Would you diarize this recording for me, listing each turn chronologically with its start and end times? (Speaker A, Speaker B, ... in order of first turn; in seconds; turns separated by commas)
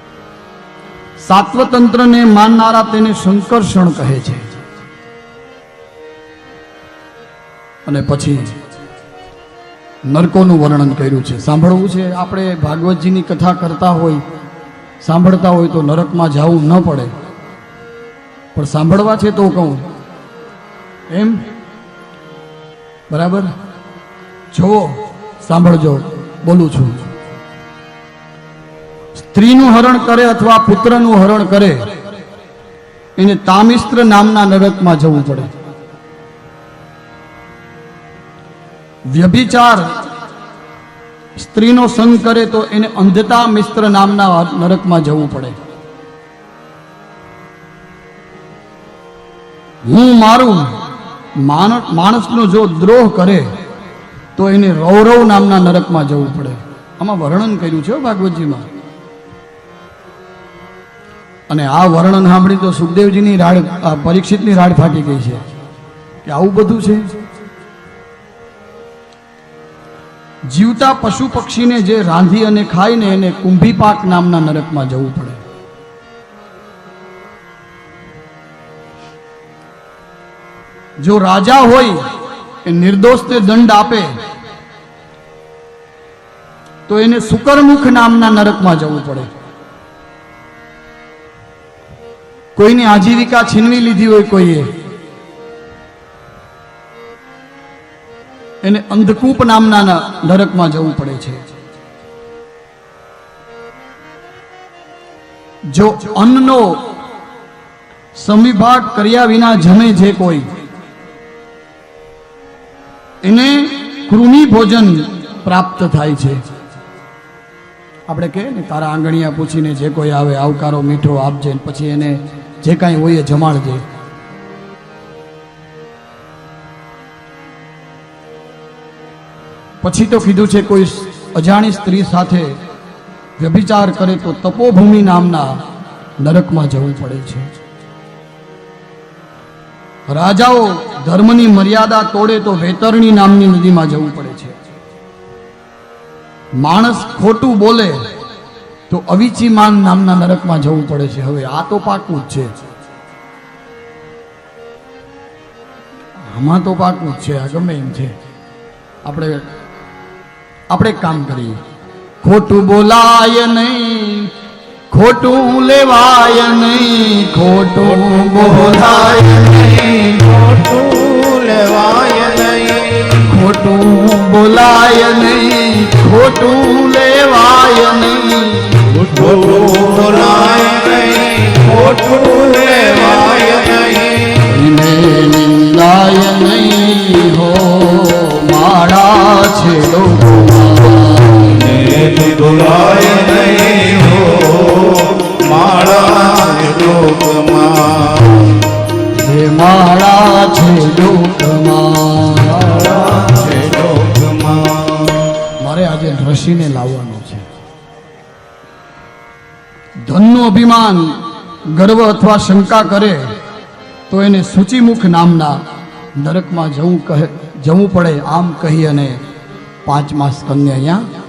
Speaker A: 1.2-4.5, Speaker A: 7.8-8.5, Speaker A: 10.1-14.2, Speaker A: 15.0-17.1, Speaker A: 18.5-19.9, Speaker A: 21.1-21.4, Speaker A: 23.1-23.5, Speaker A: 24.5-27.1, Speaker A: 29.1-31.9, Speaker A: 33.2-35.5, Speaker A: 39.1-39.9, Speaker A: 41.4-45.5, Speaker A: 49.9-50.8, Speaker A: 51.4-53.5, Speaker A: 54.4-58.6, Speaker A: 61.5-65.4, Speaker A: 66.2-67.2, Speaker A: 70.5-75.4, Speaker A: 81.0-82.0, Speaker A: 82.6-84.1, Speaker A: 86.9-89.3, Speaker A: 92.5-94.7, Speaker A: 98.6-101.4, Speaker A: 105.7-106.8, Speaker A: 108.1-110.5, Speaker A: 113.2-116.4, Speaker A: 118.1-123.8, Speaker A: 129.8-132.6, Speaker A: 133.4-135.6, Speaker A: 136.2-137.5, Speaker A: 140.1-144.6, Speaker A: 146.6-148.0, Speaker A: 148.9-152.5, Speaker A: 156.2-158.1, Speaker A: 159.0-159.4, Speaker A: 160.7-161.6, Speaker A: 162.2-164.3, Speaker A: 164.9-170.3, Speaker B: 170.2-173.2, Speaker A: 173.2-178.8, Speaker B: 179.0-184.3, Speaker A: 184.4-191.7, Speaker B: 191.6-198.6, Speaker A: 199.1-203.2, Speaker B: 203.1-205.3, Speaker A: 205.6-207.4, Speaker A: 210.0-213.3, Speaker A: 214.1-215.6, Speaker A: 216.2-219.2, Speaker A: 219.8-221.1